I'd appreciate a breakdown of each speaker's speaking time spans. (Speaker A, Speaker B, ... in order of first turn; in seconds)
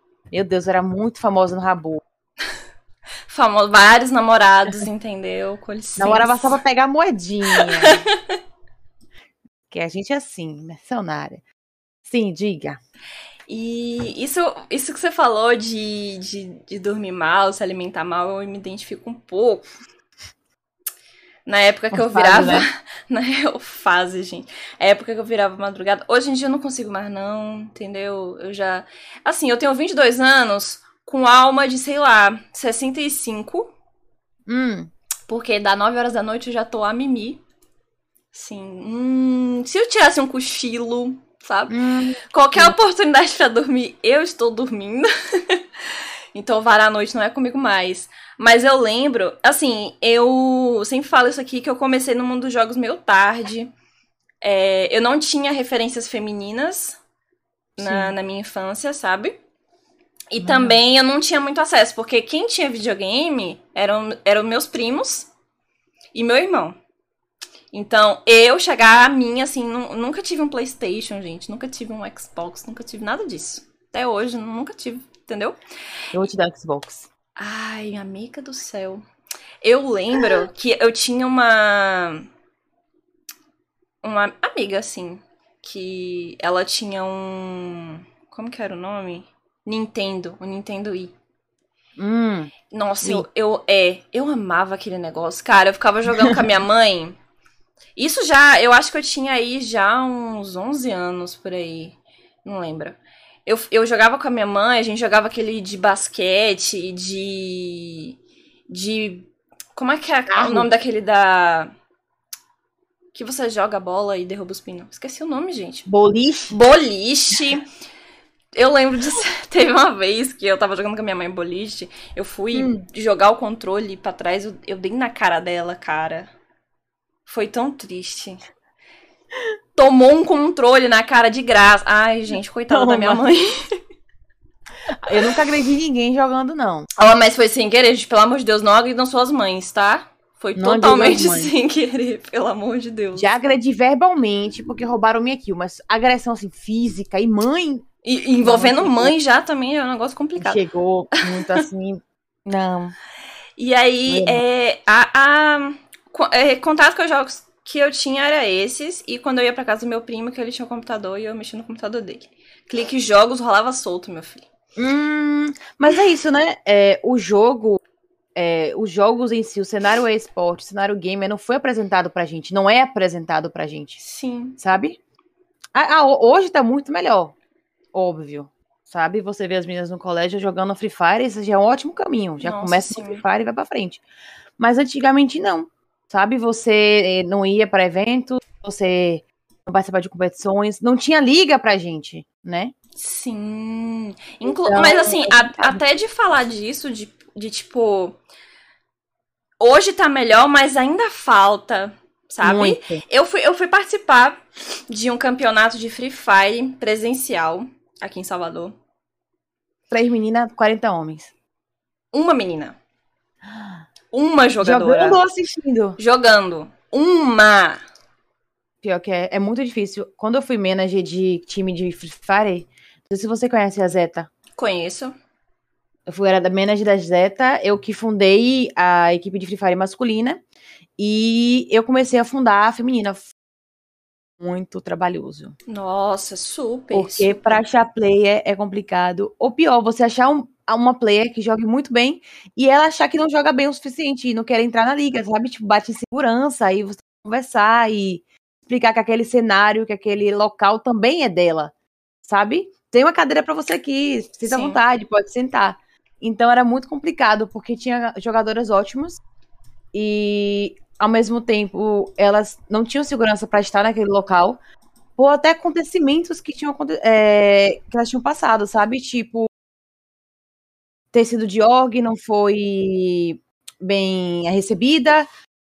Speaker A: 0.3-2.0, 6.0-8.1, 9.7-11.4, 12.0-12.8, 21.9-22.6, 34.5-34.9, 41.7-42.7, 57.8-58.1, 60.4-60.8, 76.1-77.1, 92.0-93.2, 110.3-110.7, 115.9-116.6, 122.5-122.8, 132.7-133.3, 134.9-136.9, 140.6-141.5, 143.1-147.9, 148.4-149.1, 150.4-152.9, 154.1-154.4, 164.8-167.8, 168.3-174.0, 174.6-175.0, 175.7-177.3, 177.9-184.0, 184.6-192.7, 194.4-195.8, 202.4-203.0, 209.9-211.3, 213.5-213.8, 214.6-216.0, 218.8-224.3, 226.1-230.4, 231.0-233.3, 234.4-235.5, 236.9-251.7, 252.2-259.2, 259.9-264.6, 265.2-269.5, 271.1-275.2
Speaker B: 3.3-6.6, 7.5-8.2, 13.5-19.7, 21.4-33.7, 35.3-37.4, 38.3-41.8, 42.3-53.7, 54.4-57.0, 57.8-59.4, 60.3-65.3, 66.1-66.8, 67.7-75.6, 77.4-79.0, 79.6-82.3, 84.0-91.1, 92.7-97.2, 98.0-108.2, 108.7-111.7, 113.1-115.9, 116.5-117.7, 118.5-126.3, 127.2-128.4, 129.8-133.7, 135.1-135.4, 137.0-143.3, 148.0-150.6, 151.2-151.6, 153.6-164.5, 174.0-174.6, 182.4-183.2, 192.9-198.2, 199.6-208.8, 212.1-212.8, 214.1-215.2, 216.0-217.8, 224.6-225.1, 235.7-237.6, 254.4-254.8